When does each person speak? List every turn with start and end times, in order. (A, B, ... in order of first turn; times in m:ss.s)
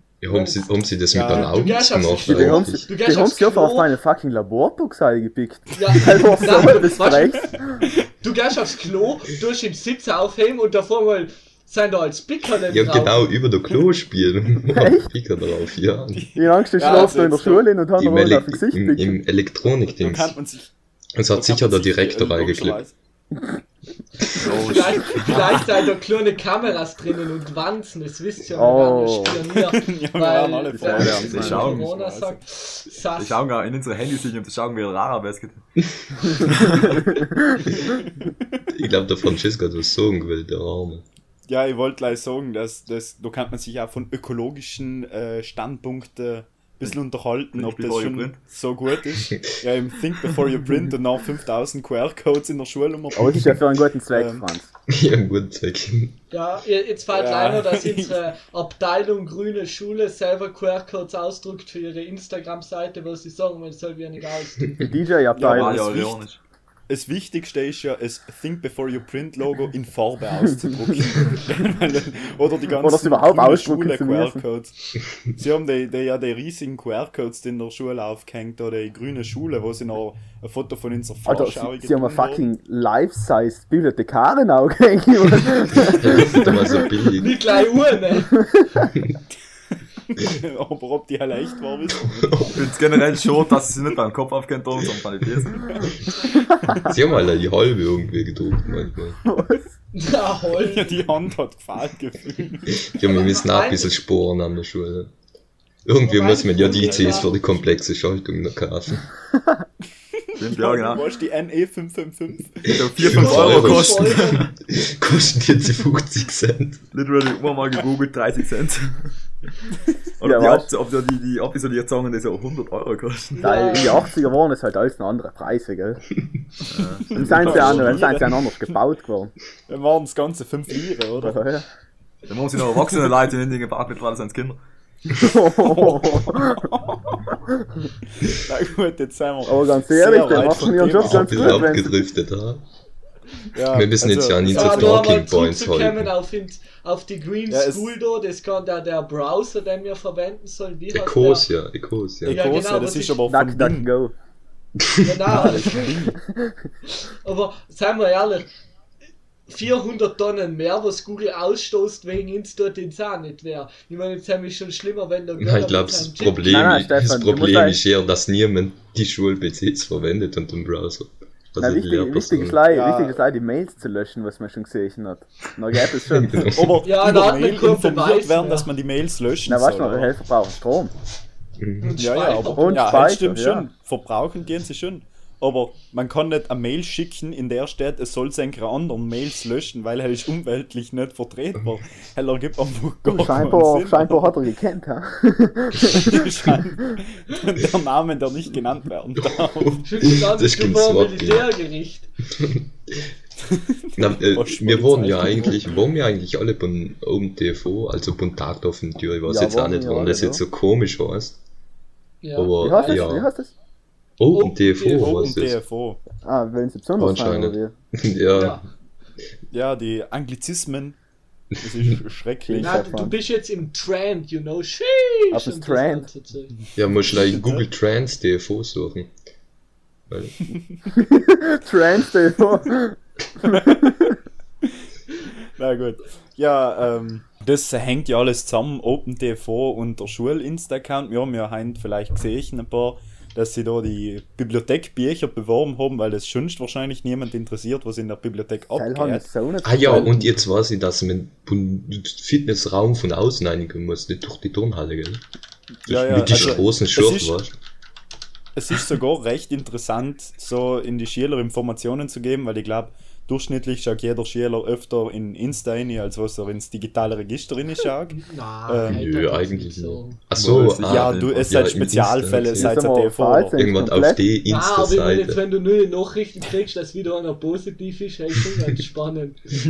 0:00.2-0:02.8 A
0:00.3-0:03.9 B
0:01.1-0:01.6 C
0:02.2-0:07.8 D
0:05.7-0:07.5 B
0:06.2-0:06.6 C
0:08.2-0:13.3 B
0:12.7-0:16.3 A
0:14.7-0:15.1 D
0:16.1-0:17.7 C
0:16.3-0:19.2 D
0:18.0-0:20.4 A
0:20.0-0:20.7 C
0:21.2-0:22.8 A
0:21.3-0:22.9 C
0:24.4-0:25.3 E
0:24.5-0:33.4 B
0:25.1-0:25.8 C
0:28.5-0:29.4 D
0:29.5-0:32.4 C
0:30.8-0:31.7 D
0:31.0-0:31.8 E
0:33.2-0:35.6 E
0:36.3-0:37.0 E
0:36.9-0:37.7 D
0:37.8-0:38.4 C
0:38.7-0:41.0 A
0:41.5-0:53.6 C
0:47.5-0:48.4 E
0:53.2-0:54.7 D
0:54.1-0:54.5 C
0:54.9-0:56.2 A
0:56.3-1:04.8 B
0:57.1-0:58.2 C
1:04.8-1:06.1 D
1:05.3-1:06.2 C
1:05.4-1:06.4 E
1:06.9-1:14.8 C
1:12.8-1:14.4 D
1:15.3-1:22.4 C
1:21.2-1:26.5 D
1:25.7-1:27.4 A
1:26.2-1:28.4 B
1:28.4-1:28.9 D
1:30.1-1:32.6 C
1:32.1-1:32.6 A
1:32.5-1:35.9 E
1:36.6-1:36.9 C
1:36.8-1:39.2 A
1:39.3-1:39.7 D
1:39.9-1:41.0 B
1:40.6-1:42.8 C
1:42.8-1:45.1 A
1:43.0-1:43.9 B
1:45.8-1:49.1 A
1:46.0-1:47.3 B
1:46.8-1:47.2 E
1:50.4-1:51.0 E
1:50.4-1:52.7 C
1:52.7-1:54.5 E
1:52.9-1:56.8 A
1:53.0-1:54.5 B
1:56.9-1:59.1 E
2:00.2-2:03.8 E
2:00.2-2:00.7 D
2:03.3-2:04.1 B
2:03.4-2:06.1 D
2:06.7-2:08.0 E
2:07.1-2:09.3 D
2:07.1-2:08.7 C
2:09.7-2:11.4 C
2:11.2-2:11.7 D
2:12.3-2:14.6 E
2:15.1-2:16.8 D
2:15.6-2:17.1 C
2:18.2-2:21.8 C
2:19.5-2:21.9 D
2:20.3-2:22.6 A
2:23.5-2:25.1 C
2:23.7-2:26.1 A
2:24.5-2:31.5 B
2:27.5-2:27.9 C
2:30.9-2:32.4 A
2:32.2-2:33.9 C
2:32.3-2:33.2 B
2:33.2-2:34.1 D
2:35.0-2:35.9 B
2:35.3-2:36.2 C
2:36.1-2:36.5 D
2:37.0-2:38.5 B
2:39.5-2:46.6 B
2:45.4-2:52.6 A
2:46.4-2:47.8 D
2:51.6-2:56.5 D
2:52.7-2:53.2 C
2:56.1-2:56.8 A
2:56.5-3:00.1 C
2:56.8-2:58.7 B
2:59.4-3:00.9 D
3:01.6-3:02.0 A
3:01.8-3:03.0 B
3:02.0-3:14.3 C
3:02.6-3:03.6 D
3:13.0-3:16.2 D
3:15.8-3:19.8 C
3:19.2-3:21.5 A
3:19.8-3:22.1 B
3:22.4-3:23.0 A
3:23.4-3:25.7 C
3:24.0-3:31.4 A
3:29.2-3:30.4 D
3:32.2-3:33.2 B
3:32.3-3:33.3 A
3:32.6-3:33.5 D
3:34.2-3:35.6 A
3:34.3-3:35.3 B
3:35.0-3:36.0 C
3:36.2-3:37.7 D
3:37.0-3:38.6 A
3:38.3-3:38.6 B
3:39.5-3:41.0 C
3:41.6-3:42.8 C
3:42.4-3:43.1 D
3:42.6-3:46.6 B
3:45.3-3:46.1 D
3:46.8-3:49.1 A
3:47.1-3:47.6 C
3:50.1-3:50.5 A
3:50.9-3:54.1 D
3:53.5-3:54.1 C
3:55.6-4:09.3 C
4:08.7-4:10.4 D
4:09.6-4:15.2 A
4:15.8-4:17.4 C
4:15.9-4:17.5 A
4:18.6-4:29.1 C
4:28.1-4:30.2 B
4:28.9-4:32.8 A
4:30.3-4:31.4 E
4:30.8-4:33.6 C
4:32.5-4:34.2 D
4:33.5-4:35.4 A
4:34.5-4:39.5 B